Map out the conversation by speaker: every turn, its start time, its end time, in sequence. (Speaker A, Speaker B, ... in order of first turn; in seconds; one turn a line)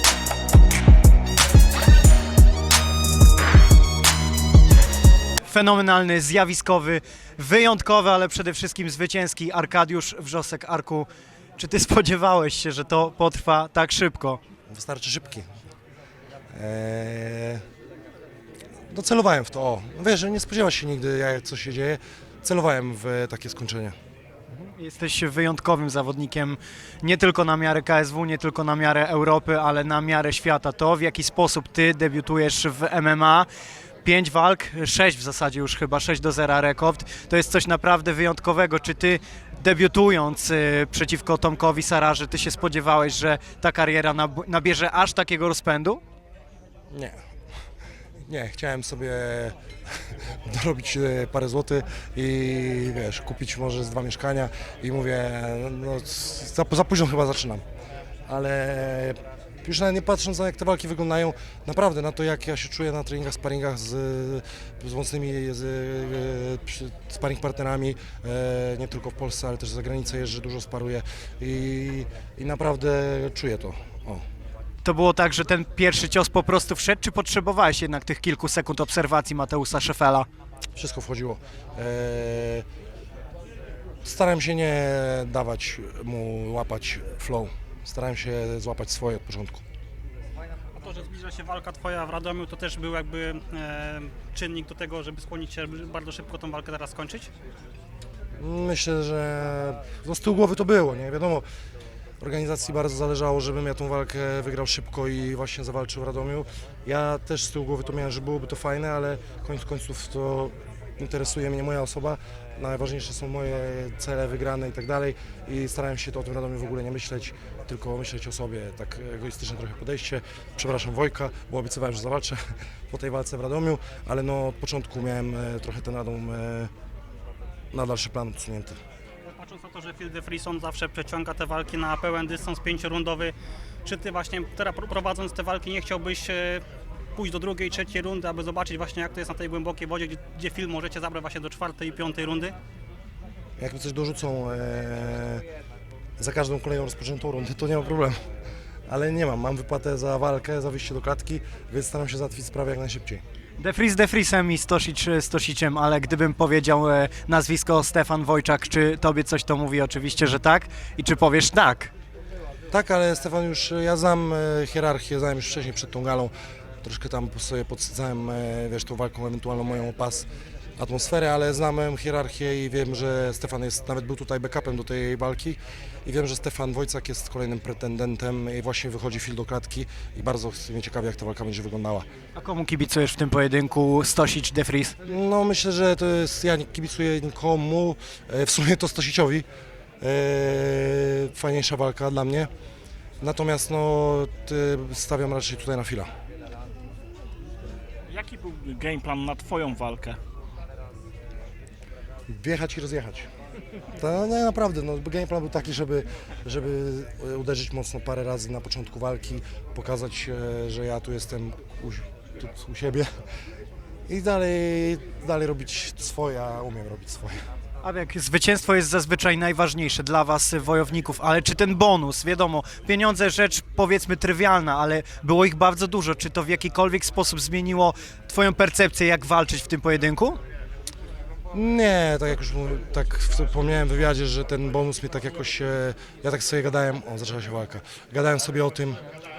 Speaker A: 5.5-14.4
Speaker B: 14.7-15.5
Speaker B: 16.5-17.6
Speaker B: 18.9-24.0
Speaker A: 24.5-33.5
Speaker A: 34.0-46.0
Speaker B: 46.9-47.2
Speaker B: 48.3-57.6
Speaker B: 58.3-74.2
Speaker A: 74.8-80.3
Speaker B: 80.8-82.7
Speaker B: 84.0-89.6
Speaker C: 90.8-97.3
Speaker B: 98.4-101.5
Speaker B: 102.2-126.7
Speaker B: 127.7-128.8
Speaker C: 129.3-136.6
Speaker C: 137.2-142.5
Speaker B: 143.6-145.4
Speaker B: 146.2-148.2
Speaker B: 148.9-153.2
Speaker A: 153.6-161.9
Speaker B: 162.7-170.3
Speaker B: 170.8-182.1
Speaker A: 182.3-185.0
Speaker B: 185.0-189.5
Speaker B: 190.0-192.5
Speaker B: 193.2-196.1
Speaker D: 198.1-200.2
Speaker B: 202.3-203.3
Speaker B: 204.0-213.1
Speaker B: 214.1-217.4
Speaker A: 217.8-230.4
Speaker B: 231.5-239.0